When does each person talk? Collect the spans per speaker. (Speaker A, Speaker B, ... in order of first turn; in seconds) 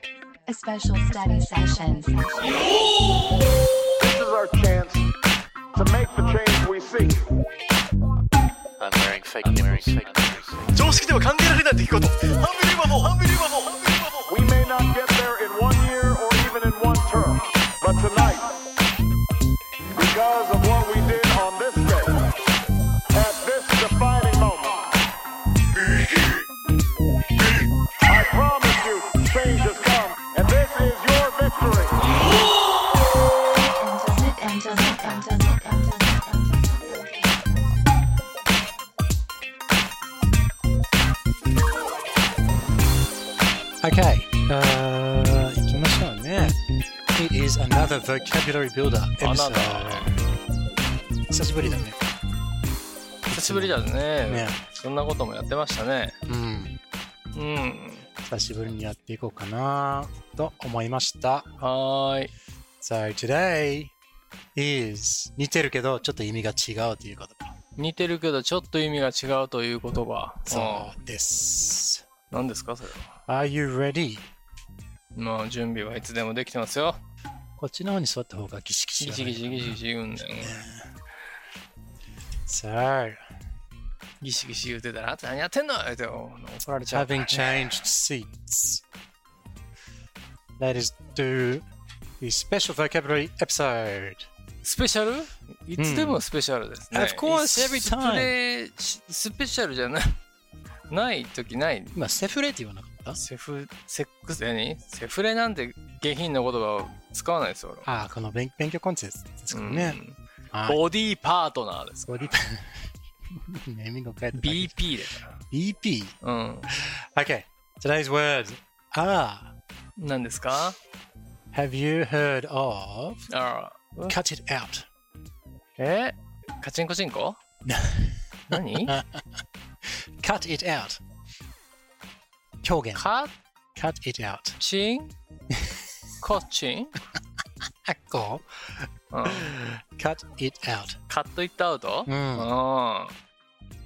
Speaker A: 0.5-3.0, 33.5-37.7
Speaker B: 4.0-5.1, 5.8-7.2, 14.3-18.6, 19.9-22.3, 23.1-24.9, 28.1-32.0
Speaker C: 8.8-14.3
Speaker D: 9.2-10.5, 43.8-46.6, 47.1-50.2, 51.3-52.2, 53.3-54.6, 56.3-56.8, 58.2-61.5, 62.8-63.9, 64.5-67.5, 70.5-72.1, 73.3-74.3, 77.6-80.9, 82.5-83.3, 86.7-88.8, 90.6-91.7, 92.2-94.3, 95.8-96.2, 96.9-98.3, 101.9-103.2, 107.8-110.0, 110.5-110.8, 112.0-119.5, 121.5-123.3, 124.1-124.9, 127.7-129.2, 129.8-131.0, 132.6-133.1, 133.8-134.6, 137.9-141.0, 142.1-142.5
Speaker E: 49.2-50.1, 53.3-56.2, 57.3-58.1, 61.6-62.3, 67.8-70.9, 72.3-73.1, 75.1-77.0, 79.0-80.6, 84.2-87.8, 94.6-100.2, 100.9-102.1, 103.1-107.9, 109.5-112.3, 114.3-115.4, 116.2-116.7, 120.0-120.8, 123.3-124.2, 125.8-127.4, 128.5-129.0, 132.9-133.3, 134.6-135.1, 136.2-137.0, 139.1-139.6, 141.1-143.2